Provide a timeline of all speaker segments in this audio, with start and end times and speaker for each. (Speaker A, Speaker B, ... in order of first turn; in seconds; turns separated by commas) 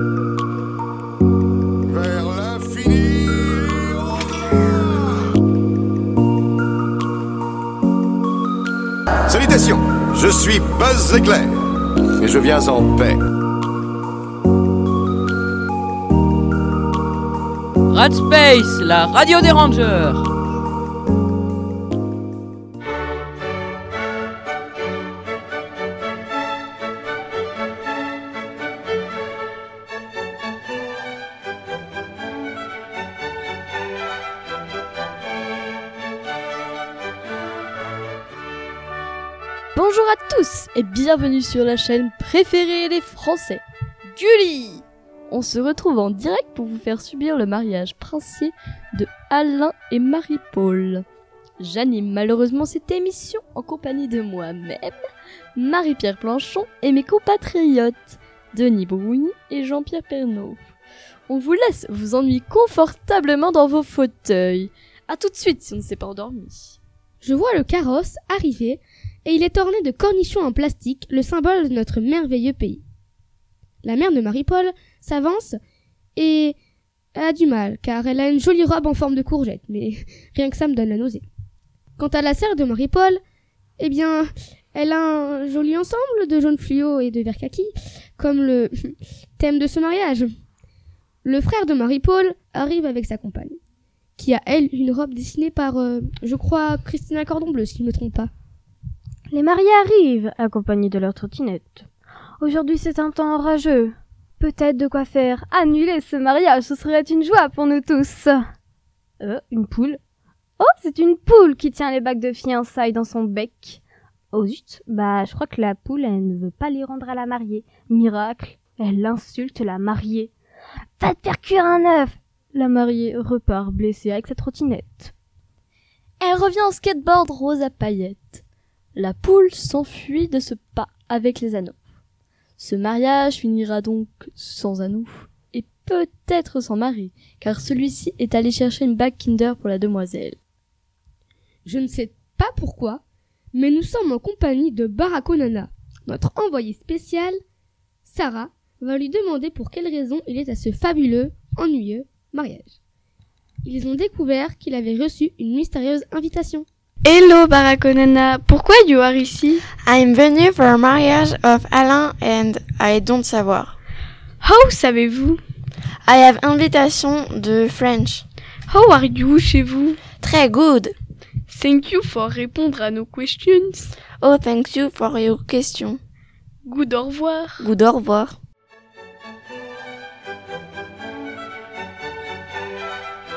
Speaker A: 1.9-5.1, Speaker A: 9.3-11.6, Speaker A: 12.2-13.2, Speaker B: 17.9-20.3, Speaker C: 39.8-51.0, Speaker C: 51.6-55.0, Speaker C: 55.6-60.6, Speaker C: 61.3-66.8, Speaker D: 67.2-72.8, Speaker D: 73.8-75.6, Speaker D: 76.2-76.6, Speaker D: 77.2-81.2, Speaker D: 82.0-83.2, Speaker D: 83.8-90.3, Speaker D: 91.2-93.6, Speaker D: 94.2-98.3, Speaker E: 99.3-101.9, Speaker E: 102.4-108.4, Speaker E: 109.2-110.0, Speaker E: 110.6-113.8, Speaker E: 114.3-120.3, Speaker E: 121.0-125.1, Speaker C: 126.2-128.4, Speaker C: 129.0-131.8, Speaker C: 132.6-140.4, Speaker D: 141.7-143.0, Speaker D: 143.5-147.4, Speaker D: 148.1-152.7, Speaker D: 153.6-156.7, Speaker F: 157.1-159.6, Speaker G: 159.8-163.8, Speaker F: 164.4-165.4, Speaker G: 166.1-168.2, Speaker F: 168.7-170.0, Speaker G: 170.2-170.9, Speaker F: 171.5-173.9, Speaker G: 174.2-176.0, Speaker F: 176.7-177.6, Speaker G: 177.6-178.4